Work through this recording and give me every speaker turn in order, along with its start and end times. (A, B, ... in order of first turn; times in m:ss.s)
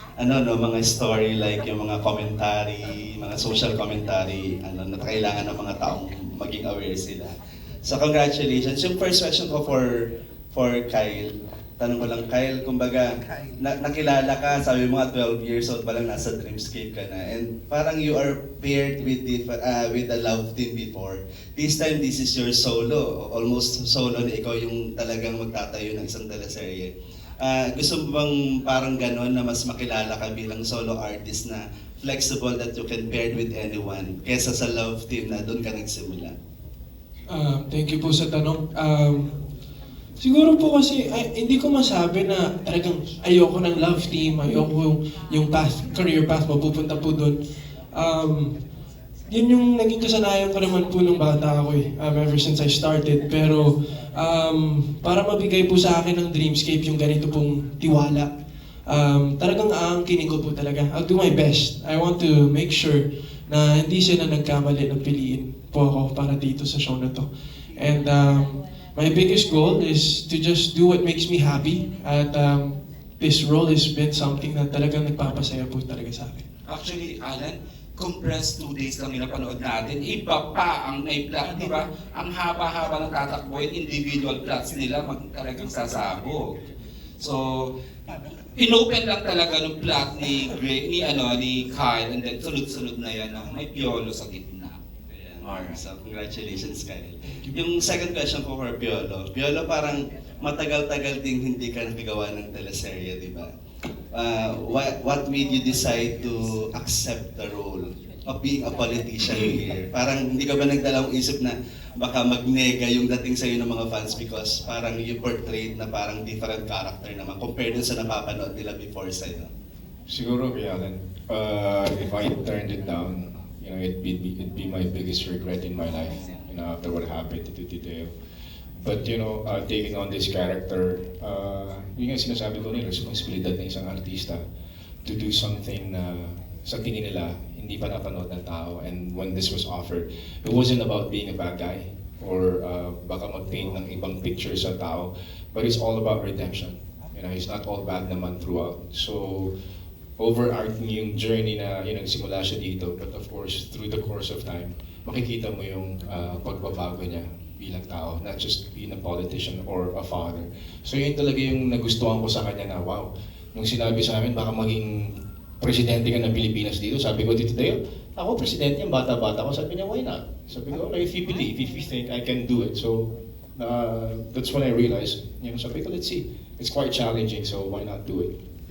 0:00.2-0:07.3 A
0:07.8-0:09.9 A
0:10.5-0:26.9 A
0:27.4-0:36.3 A
0:37.3-0:39.4 B
0:40.2-0:47.4 B
0:47.9-0:48.6 B
0:49.3-0:58.3 B
0:58.8-1:16.4 B
1:16.7-1:26.5 C
1:27.2-1:27.7 C
1:28.6-1:34.8 C
1:35.1-1:43.5 A
1:35.4-1:35.8 C
1:44.1-1:59.5 A
2:00.1-2:08.1 D
2:08.8-2:14.4 D
2:15.0-2:29.5 D
2:30.2-2:58.3 D